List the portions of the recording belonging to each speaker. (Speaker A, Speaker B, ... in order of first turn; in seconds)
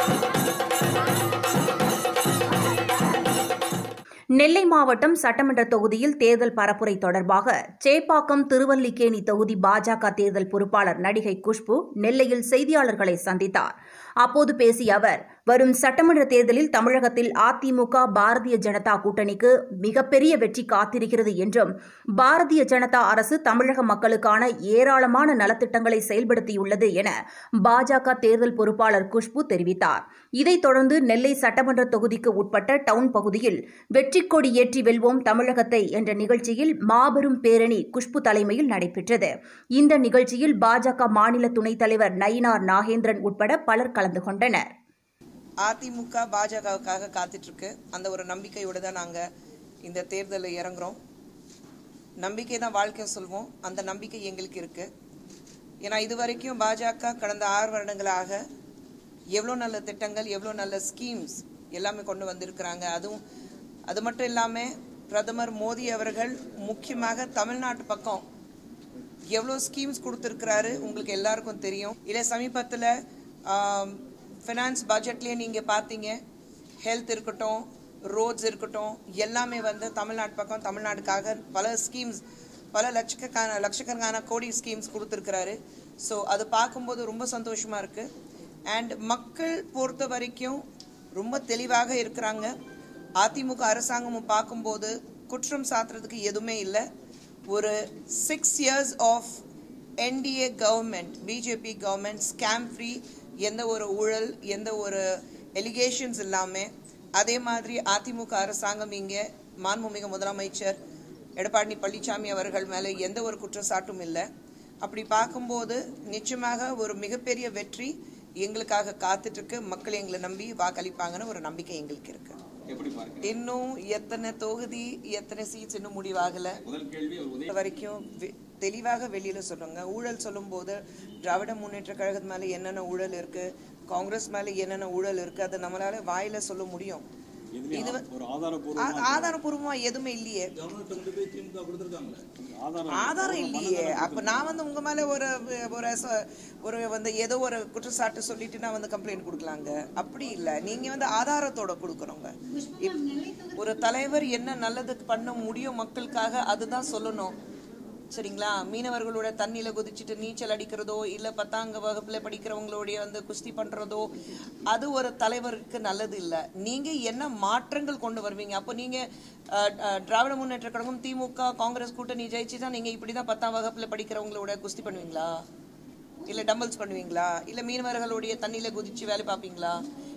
Speaker A: 4.4-44.7
Speaker B: 45.6-49.2, 49.8-51.0, 52.2-54.9, 55.8-58.4, 59.4-63.2, 63.9-68.2, 69.3-73.0, 73.5-76.2, 76.8-82.2, 82.7-88.1, 88.7-90.6, 91.2-92.5, 93.2-96.8, 97.5-99.4, 100.0-110.8, 111.4-114.3, 114.8-122.4, 123.2-126.6, 127.5-137.1, 137.7-138.0, 138.8-140.5, 142.9-157.4, 158.1-164.1, 164.7-175.4, 176.3-179.8
Speaker C: 122.7-123.3, 126.6-127.5, 137.6-139.4, 140.6-144.5